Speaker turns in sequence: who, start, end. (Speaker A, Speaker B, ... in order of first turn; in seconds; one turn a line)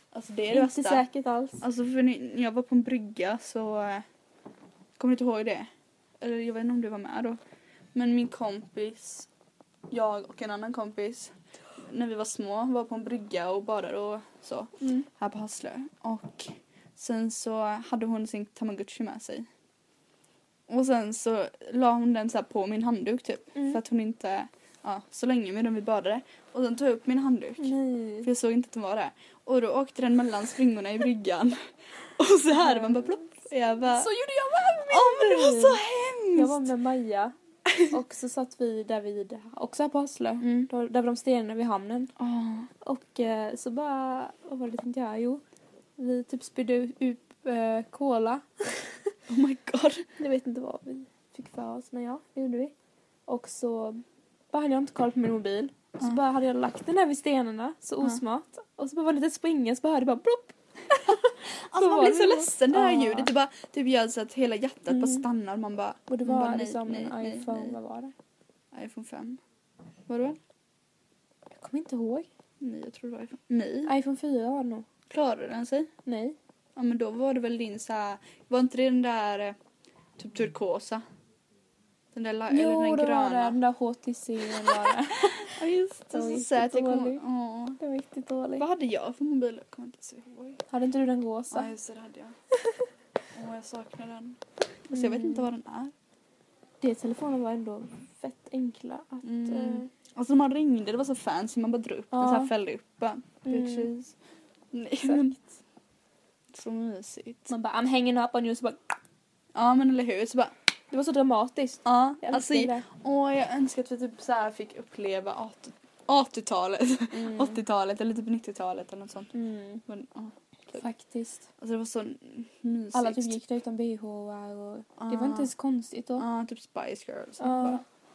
Speaker A: 0.1-1.1
Speaker B: 0.5-1.6
Speaker A: 1.6-4.0
Speaker A: 5.0-5.7
Speaker A: 6.2-7.4
Speaker A: 7.9-9.3
Speaker A: 9.9-19.4
Speaker A: 20.7-31.6
Speaker B: 23.6-23.8
Speaker B: 27.6-28.3
Speaker A: 32.1-34.1
Speaker B: 32.6-33.2
Speaker B: 33.9-42.1
Speaker A: 34.9-36.7
Speaker A: 40.4-40.7
Speaker A: 42.2-42.7
Speaker B: 42.8-45.4
Speaker B: 46.0-49.0
Speaker A: 49.3-50.0
Speaker B: 50.2-52.7
Speaker B: 53.3-63.3
Speaker A: 61.1-67.8
Speaker B: 64.9-65.2
Speaker B: 66.1-68.1
Speaker A: 68.7-69.4
Speaker A: 70.1-70.4
Speaker B: 71.5-72.3
Speaker A: 72.6-73.9
Speaker B: 73.8-74.8
Speaker A: 75.1-75.9
Speaker B: 76.0-76.4
Speaker A: 76.8-79.5
Speaker A: 80.2-81.0
Speaker A: 82.1-83.6
Speaker B: 82.5-87.2
Speaker A: 84.5-87.8
Speaker B: 87.8-88.7
Speaker A: 88.6-90.6
Speaker B: 90.7-91.7
Speaker A: 91.5-92.3
Speaker A: 93.3-95.9
Speaker B: 94.9-95.5
Speaker B: 96.8-99.9
Speaker A: 99.2-104.1
Speaker B: 102.1-102.5
Speaker B: 103.4-103.9
Speaker A: 104.7-105.4
Speaker B: 105.0-105.4
Speaker A: 106.5-107.5
Speaker B: 107.5-109.0
Speaker A: 109.5-110.5
Speaker B: 110.9-112.9
Speaker A: 111.8-119.3
Speaker B: 117.1-117.6
Speaker B: 119.3-119.8
Speaker A: 119.8-120.8
Speaker B: 120.7-121.4
Speaker A: 121.6-123.4
Speaker B: 122.9-126.3
Speaker A: 125.0-125.5
Speaker A: 126.2-127.8
Speaker B: 127.4-127.8